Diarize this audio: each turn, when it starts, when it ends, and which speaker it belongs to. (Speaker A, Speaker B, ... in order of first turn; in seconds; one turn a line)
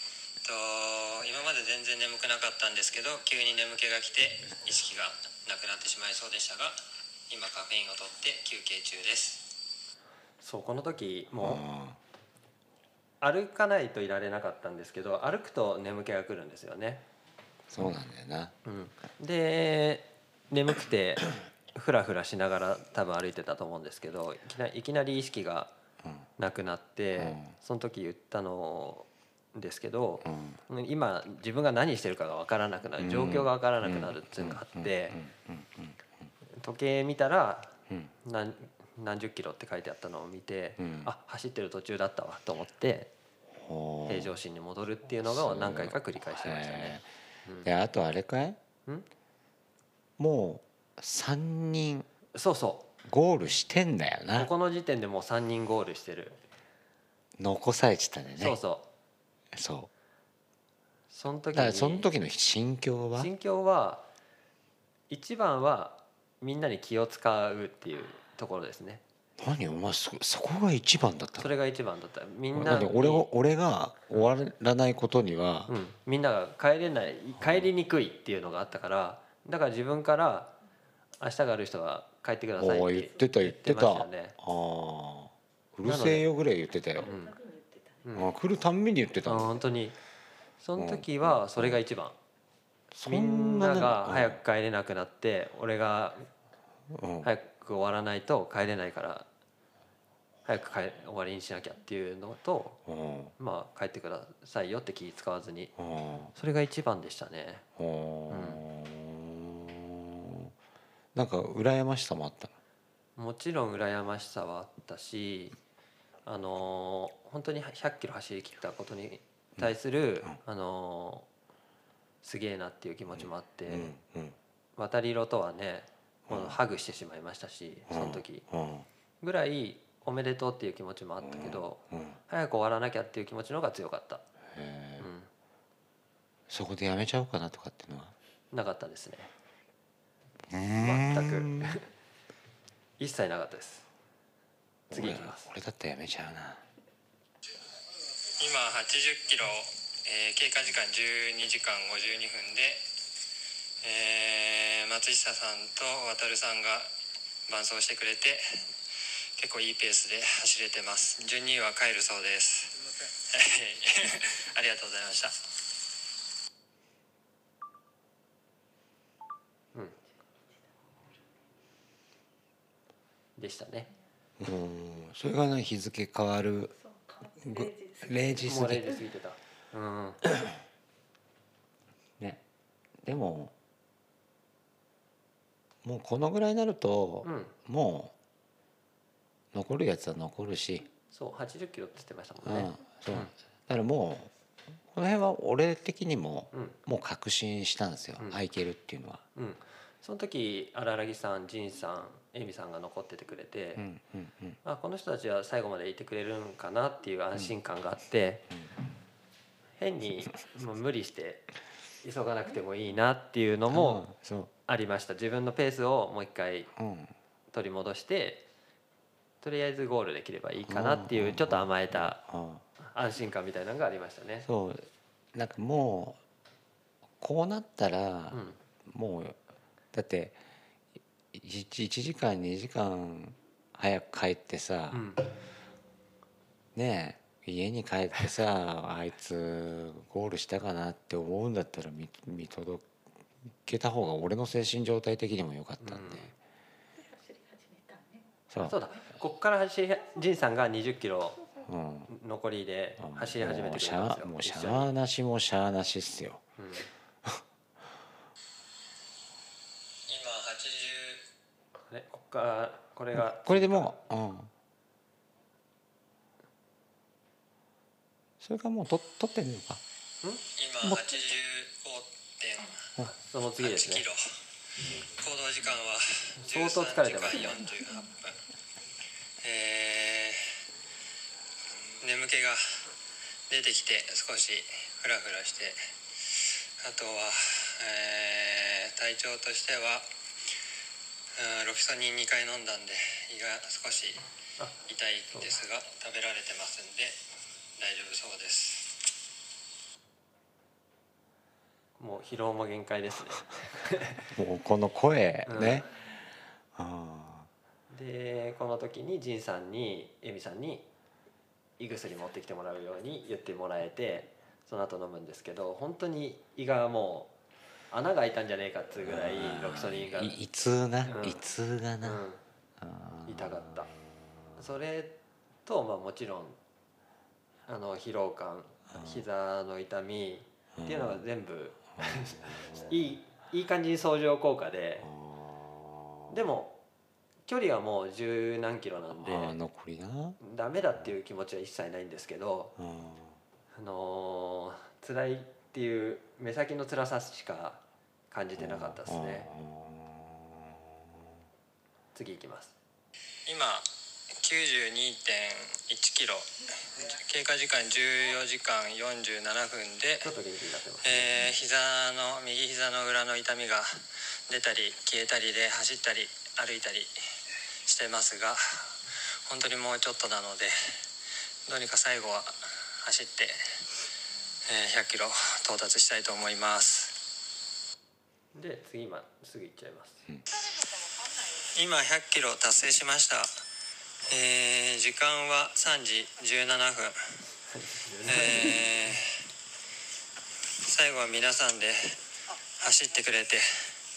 Speaker A: 0.4-6.8
Speaker A: 7.3-9.5
Speaker B: 10.4-11.6
Speaker C: 11.3-12.0
Speaker B: 13.2-17.0
Speaker C: 17.7-18.5
Speaker B: 18.6-25.7
Speaker B: 26.4-35.2
Speaker C: 27.1-27.5
Speaker C: 30.2-30.6
Speaker C: 33.0-36.0
Speaker B: 36.6-43.1
Speaker C: 40.8-41.1
Speaker C: 43.5-44.4
Speaker B: 44.0-47.7
Speaker C: 45.2-47.0
Speaker C: 47.6-48.6
Speaker C: 50.2-52.1
Speaker B: 52.3-52.9
Speaker C: 53.0-54.5
Speaker B: 54.3-56.4
Speaker C: 57.4-58.6
Speaker B: 58.4-58.9
Speaker C: 59.5-59.9
Speaker B: 61.1-62.1
Speaker C: 61.5-63.3
Speaker B: 63.2-64.0
Speaker B: 65.1-69.0
Speaker C: 69.4-71.5
Speaker B: 71.4-73.3
Speaker C: 72.5-75.7
Speaker B: 75.7-80.5
Speaker C: 77.4-77.7
Speaker B: 81.2-84.3
Speaker C: 82.6-87.1
Speaker B: 85.8-86.2
Speaker D: 87.0-88.0
Speaker B: 87.0-87.3
Speaker B: 88.0-88.3
Speaker C: 88.1-89.6
Speaker B: 89.2-90.0
Speaker B: 90.6-92.2
Speaker C: 90.8-91.8
Speaker C: 92.9-94.4
Speaker B: 93.0-96.3
Speaker C: 96.9-97.3
Speaker B: 97.2-99.3
Speaker B: 100.5-102.8
Speaker C: 102.8-103.3
Speaker B: 103.4-105.7
Speaker C: 105.8-106.3
Speaker B: 106.3-107.6
Speaker C: 107.8-110.5
Speaker B: 108.3-108.6
Speaker C: 111.1-112.5
Speaker B: 113.2-115.6
Speaker B: 116.2-121.3
Speaker C: 119.6-120.4
Speaker B: 122.2-123.9
Speaker C: 123.2-124.4
Speaker B: 124.8-128.4
Speaker C: 126.3-126.6
Speaker C: 127.9-128.9
Speaker B: 129.2-134.2
Speaker C: 131.2-132.2
Speaker C: 134.5-135.1
Speaker B: 135.0-135.3
Speaker C: 136.5-138.1
Speaker B: 138.5-139.3
Speaker C: 140.5-141.8
Speaker B: 140.7-141.9
Speaker B: 143.0-143.9
Speaker C: 144.9-146.6
Speaker B: 144.9-145.5
Speaker A: 148.4-152.8
Speaker A: 153.8-156.9
Speaker A: 157.5-158.6
Speaker A: 159.4-165.4
Speaker B: 173.4-173.9
Speaker C: 174.4-176.7
Speaker D: 176.8-178.8
Speaker C: 177.4-179.0
Speaker B: 178.4-180.2
Speaker C: 180.3-180.5
Speaker C: 183.0-183.5
Speaker C: 185.8-188.1
Speaker B: 187.2-187.5
Speaker C: 189.5-190.9
Speaker B: 191.1-193.3
Speaker C: 192.4-194.3
Speaker C: 194.9-199.2
Speaker B: 199.3-203.8
Speaker C: 203.8-204.6
Speaker B: 204.6-208.5
Speaker B: 209.8-211.5
Speaker B: 212.0-214.1
Speaker C: 213.7-214.5
Speaker B: 214.7-216.7
Speaker C: 216.8-217.1
Speaker B: 217.5-218.4
Speaker B: 219.4-222.2
Speaker C: 220.7-222.6
Speaker B: 222.8-224.5
Speaker C: 224.4-226.2
Speaker C: 227.2-229.4
Speaker B: 228.3-228.6
Speaker C: 229.9-230.4
Speaker C: 231.3-235.1
Speaker B: 234.9-235.2
Speaker C: 236.7-242.9
Speaker C: 243.6-246.3
Speaker B: 245.8-246.3
Speaker D: 246.9-248.3
Speaker C: 248.5-248.7
Speaker B: 248.6-251.4
Speaker C: 251.6-252.1
Speaker B: 252.1-254.9
Speaker C: 253.0-256.4
Speaker B: 256.6-256.9
Speaker A: 260.1-261.2
Speaker B: 261.9-263.9
Speaker C: 263.1-264.5
Speaker C: 268.4-269.8
Speaker A: 270.6-272.9
Speaker B: 273.0-274.0
Speaker A: 273.6-274.2
Speaker A: 275.2-278.4
Speaker B: 276.4-277.6
Speaker A: 279.4-280.6
Speaker A: 282.0-282.8
Speaker A: 283.5-285.8
Speaker A: 286.3-290.1
Speaker A: 291.4-294.2
Speaker A: 294.8-297.2
Speaker A: 297.8-299.0
Speaker B: 302.0-304.2
Speaker C: 304.3-306.1
Speaker B: 305.4-305.8
Speaker C: 306.7-307.5
Speaker B: 307.9-310.9
Speaker B: 311.8-317.3
Speaker B: 317.9-320.4
Speaker C: 319.0-322.2
Speaker B: 321.0-321.4
Speaker B: 322.0-322.4
Speaker C: 322.8-323.7
Speaker B: 323.2-323.9
Speaker B: 324.6-326.6
Speaker B: 327.7-335.1
Speaker C: 328.9-329.2
Speaker C: 330.8-331.2
Speaker C: 332.0-332.8
Speaker C: 335.0-336.3
Speaker B: 336.3-336.8
Speaker B: 337.4-339.6
Speaker C: 339.1-340.4
Speaker B: 340.4-342.7
Speaker C: 342.8-343.4
Speaker B: 343.7-349.5
Speaker C: 348.6-351.3
Speaker B: 352.1-352.7
Speaker A: 353.4-360.3
Speaker B: 360.2-361.4
Speaker A: 361.0-367.1
Speaker A: 367.8-371.0
Speaker A: 371.7-373.7
Speaker A: 374.6-377.1
Speaker B: 378.5-380.2
Speaker A: 381.6-383.5
Speaker A: 384.3-387.2
Speaker B: 387.7-389.1
Speaker A: 388.3-389.3
Speaker A: 390.8-392.2
Speaker A: 392.8-393.9